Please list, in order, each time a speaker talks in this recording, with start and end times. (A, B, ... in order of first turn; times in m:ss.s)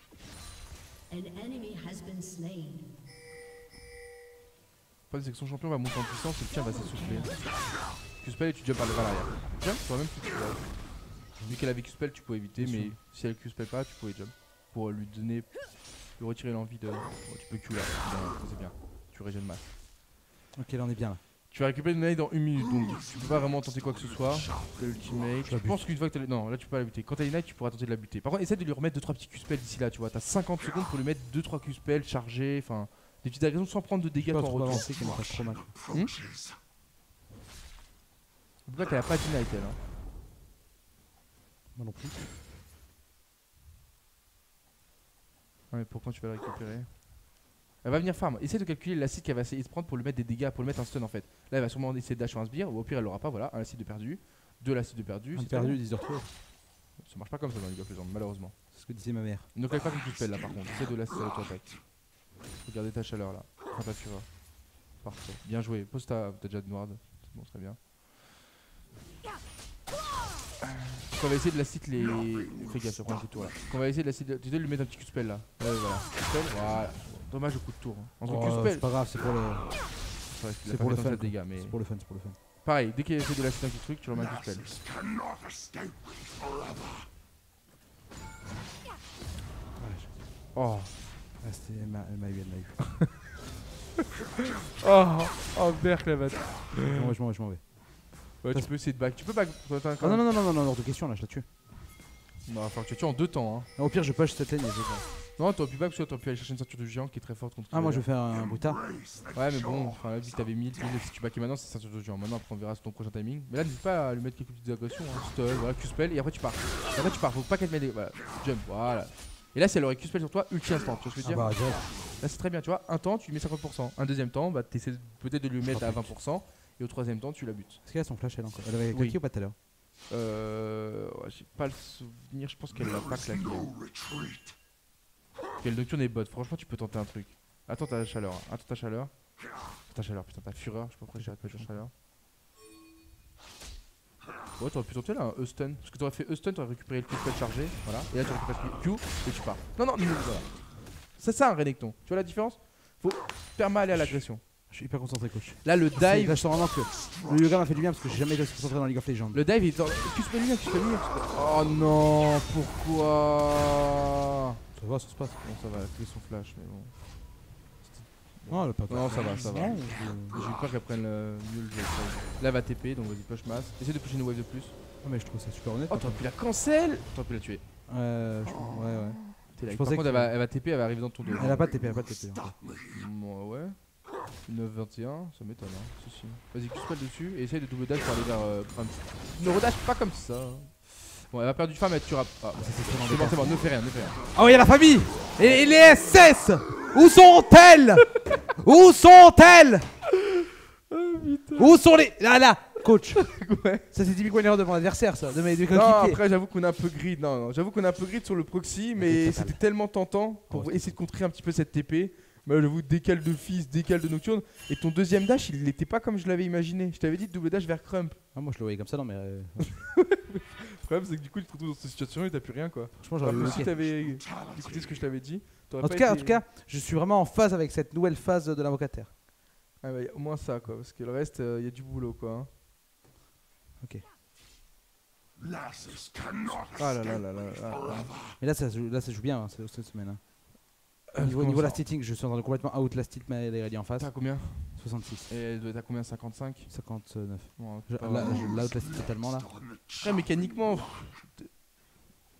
0:01.1-0:02.9 A
0:05.1-0:07.4 B
0:06.5-0:07.5 A
0:08.2-0:19.7 B
0:11.4-0:11.6 C
0:12.6-0:13.0 C
0:20.5-0:21.2 C
0:21.5-0:34.9 B
0:25.4-0:25.8 C
0:34.2-0:35.7 C
0:35.9-0:36.2 B
0:38.6-0:39.8 B
0:41.7-0:42.3 C
0:45.7-0:55.8 B
0:55.3-0:56.2 C
0:57.0-0:58.6 B
0:58.7-0:59.5 C
0:59.5-1:07.8 B
1:10.6-1:18.8 B
1:18.2-1:19.7 C
1:20.2-1:21.8 B
1:20.6-1:22.4 C
1:22.6-1:24.7 B
1:29.8-1:30.1 C
1:30.5-1:30.9 B
1:31.4-1:32.9 C
1:34.8-1:37.1 B
1:36.9-1:38.7 C
1:38.4-1:40.2 B
1:40.0-1:41.5 C
1:42.4-1:43.7 B
1:43.8-1:45.0 C
1:45.4-1:48.0 B
1:47.7-1:48.8 C
1:49.3-2:07.8 B
2:01.2-2:01.9 C
2:05.7-2:06.1 C
2:07.8-2:09.6 C
2:08.9-2:09.2 B
2:10.1-2:13.8 B
2:15.6-2:21.9 B
2:21.1-2:21.8 C
2:24.6-2:34.4 B
2:33.9-2:39.4 C
2:35.6-2:36.4 B
2:39.3-2:44.0 B
2:44.7-2:45.4 C
2:45.4-2:47.0 B
2:47.8-2:54.7 B
2:48.5-2:50.4 C
2:55.0-2:56.2 C
2:55.9-2:57.6 B
2:57.9-3:00.3 C
2:58.5-3:01.7 B
3:01.4-3:02.6 C
3:02.9-3:03.8 B
3:04.4-3:14.2 B
3:12.6-3:13.6 C
3:14.3-3:19.8 C
3:15.4-3:15.7 B
3:20.2-3:21.8 B
3:21.6-3:23.2 C
3:23.1-3:23.8 B
3:23.9-3:26.2 C
3:25.7-3:38.2 B
3:29.0-3:29.6 C
3:30.5-3:31.0 C
3:38.3-3:39.8 C
3:39.6-3:46.4 B
3:43.0-3:43.7 C
3:45.8-3:49.1 C
3:49.8-3:52.5 B
3:56.6-3:58.1 B
3:58.4-4:00.2 C
4:01.1-4:01.8 B
4:01.2-4:05.3 C
4:04.0-4:06.7 B
4:06.7-4:09.5 C
4:07.6-4:08.6 B
4:10.0-4:11.5 B